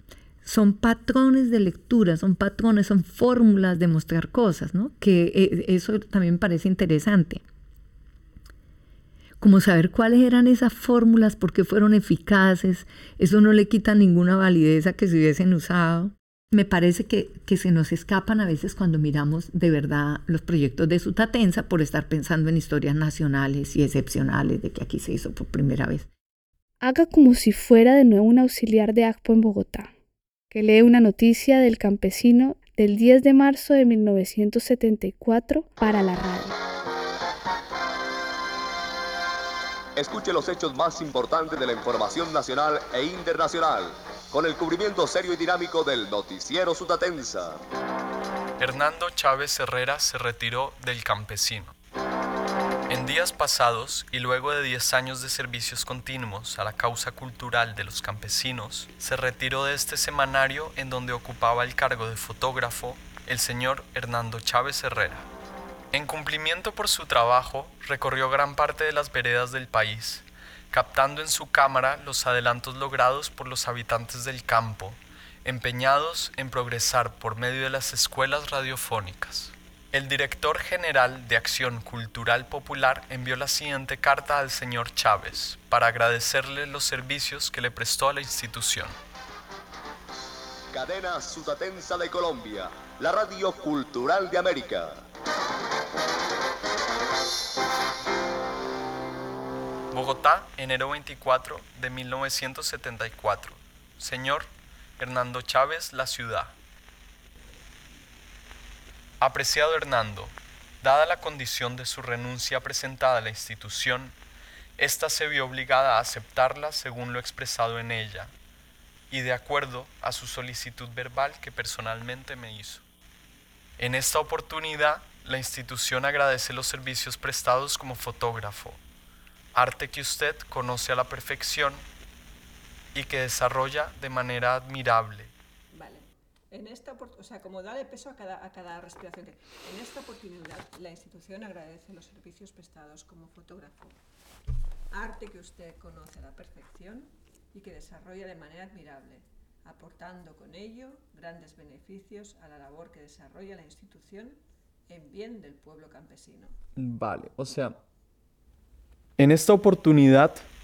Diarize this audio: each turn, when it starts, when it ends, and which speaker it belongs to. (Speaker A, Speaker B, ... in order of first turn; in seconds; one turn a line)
Speaker A: 0.4-7.4
Speaker A: 9.4-26.1
Speaker B: 26.8-29.9
Speaker B: 30.5-36.5
Speaker C: 40.0-47.6
Speaker D: 48.6-51.7
Speaker D: 52.9-65.3
Speaker D: 65.9-89.0
Speaker C: 90.7-95.0
Speaker D: 99.9-106.5
Speaker D: 109.2-114.1
Speaker D: 114.8-118.3
Speaker D: 119.1-122.8
Speaker D: 123.8-128.8
Speaker D: 129.5-131.8
Speaker D: 132.9-135.3
Speaker E: 135.7-143.9
Speaker E: 144.9-154.4
Speaker E: 154.9-156.6
Speaker D: 156.8-157.8
Speaker D: 159.2-160.4